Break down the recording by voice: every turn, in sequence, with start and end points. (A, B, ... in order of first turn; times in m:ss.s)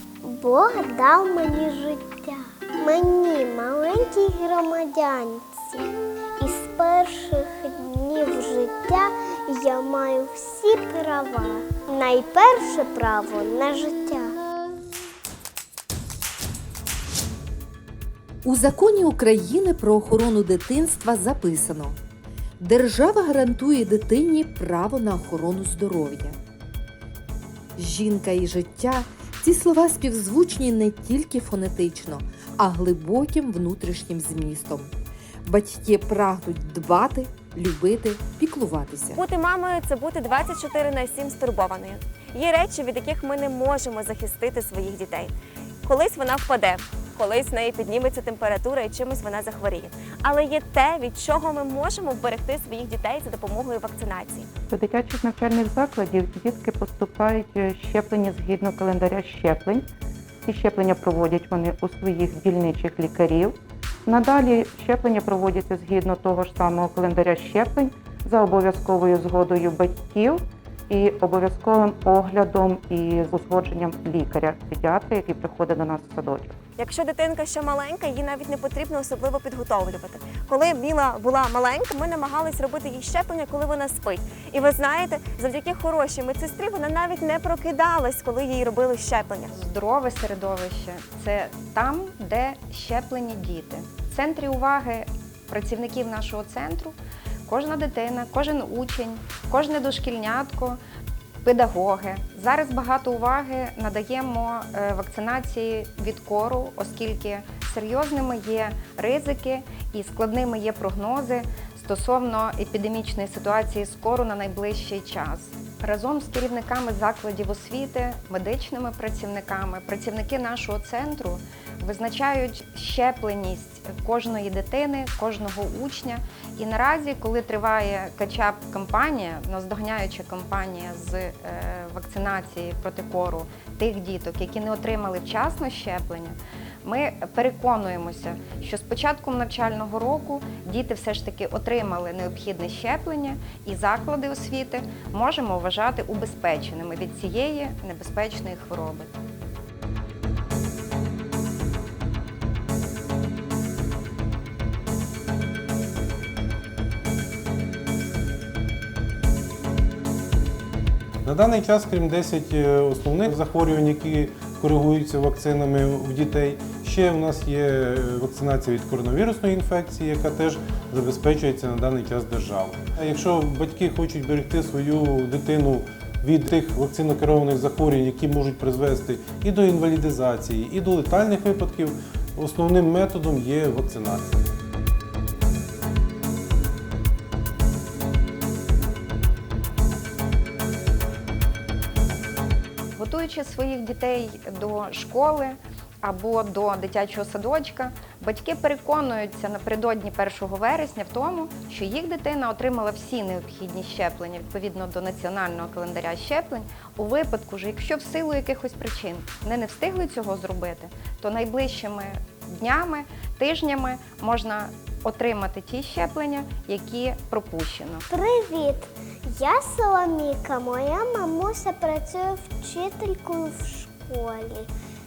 0:00.2-0:05.8 A
0:06.4-0:14.4 A
0:18.4-0:22.0 B
0:22.6-0:26.4 B
0:27.8-0:34.9 B
0:35.4-0:39.2 B
0:39.1-0:45.3 C
0:45.8-0:54.5 C
0:54.7-0:59.9 D
1:00.4-1:16.6 D
1:16.8-1:29.5 C
1:29.5-1:40.8 E
1:41.4-2:29.1 E
2:41.2-3:04.4 F
3:13.0-3:38.1 E
3:38.1-3:44.7 A